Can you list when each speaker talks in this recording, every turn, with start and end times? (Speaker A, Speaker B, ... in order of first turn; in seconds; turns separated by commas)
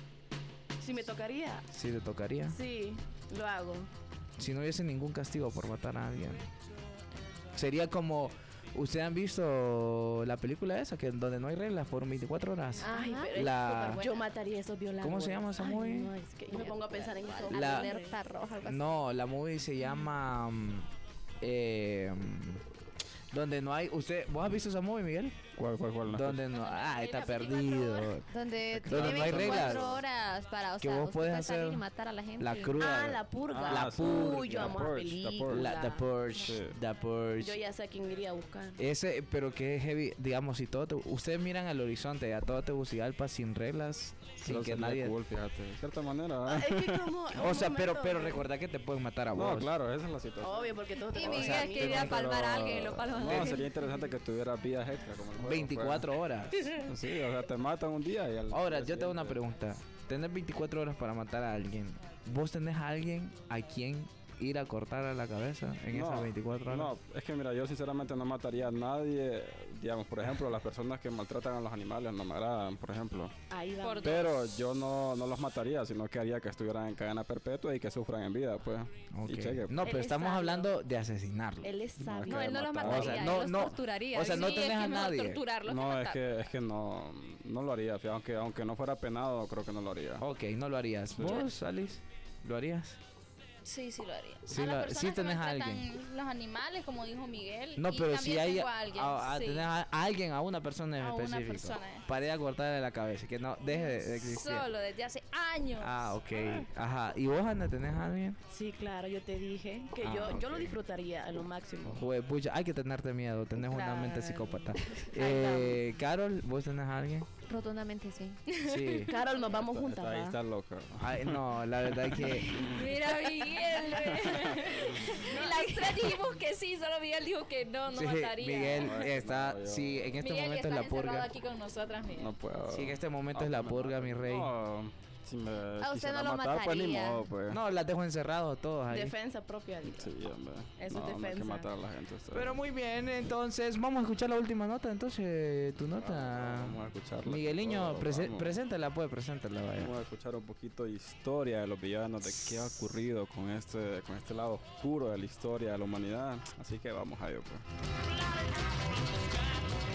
Speaker A: 0.8-1.7, Speaker B: 1.7-2.6, Speaker A: 2.5-3.9, Speaker B: 4.4-6.5, Speaker B: 7.5-14.0, Speaker C: 12.8-14.3, Speaker A: 12.9-18.2, Speaker B: 15.0-16.1, Speaker C: 16.5-19.0, Speaker B: 17.5-17.9, Speaker B: 18.6-20.9, Speaker B: 21.4-22.6, Speaker B: 23.3-25.5, Speaker D: 25.6-26.4, Speaker B: 26.1-28.3, Speaker E: 26.5-28.1, Speaker C: 28.3-32.8, Speaker D: 28.7-30.0, Speaker B: 28.9-29.9, Speaker B: 30.8-31.8, Speaker B: 32.4-34.8, Speaker A: 32.8-36.0, Speaker D: 33.5-35.8, Speaker B: 35.5-37.6, Speaker D: 36.4-36.8, Speaker A: 37.4-38.8, Speaker B: 38.8-45.1, Speaker D: 44.4-47.1, Speaker A: 46.5-48.4, Speaker B: 47.3-49.7, Speaker D: 49.4-56.1, Speaker A: 50.4-52.1, Speaker C: 51.1-53.7, Speaker B: 53.2-53.6, Speaker B: 55.4-56.8, Speaker D: 56.8-59.4, Speaker B: 58.5-66.9, Speaker D: 65.9-73.3, Speaker A: 73.5-74.5, Speaker E: 73.8-74.4, Speaker D: 74.0-79.9, Speaker B: 79.1-82.2, Speaker A: 79.8-80.7, Speaker A: 81.6-83.5, Speaker D: 82.1-83.1, Speaker C: 82.3-85.0, Speaker B: 82.8-85.5, Speaker E: 84.2-86.4, Speaker D: 85.7-90.2, Speaker B: 90.2-93.0, Speaker D: 91.1-91.5, Speaker E: 93.6-99.7, Speaker B: 94.5-95.9, Speaker B: 97.8-104.7, Speaker E: 101.0-102.0, Speaker E: 103.7-106.2, Speaker B: 105.8-108.4, Speaker A: 108.5-112.0, Speaker B: 110.0-110.7, Speaker B: 111.9-117.3, Speaker A: 113.6-115.8, Speaker C: 117.5-118.4, Speaker E: 118.5-119.0, Speaker B: 118.6-119.1, Speaker A: 119.1-120.4, Speaker D: 119.5-122.8, Speaker B: 121.0-122.7, Speaker E: 122.5-129.1, Speaker D: 124.3-124.8, Speaker A: 125.2-125.8, Speaker B: 127.9-131.3, Speaker D: 128.7-130.2, Speaker E: 130.2-132.3, Speaker D: 132.2-137.6, Speaker B: 132.7-134.5, Speaker C: 135.8-137.2, Speaker B: 137.5-139.2, Speaker A: 138.9-140.1, Speaker D: 139.9-142.6, Speaker A: 140.8-141.7, Speaker B: 142.3-149.9, Speaker D: 146.0-148.6, Speaker D: 149.8-157.7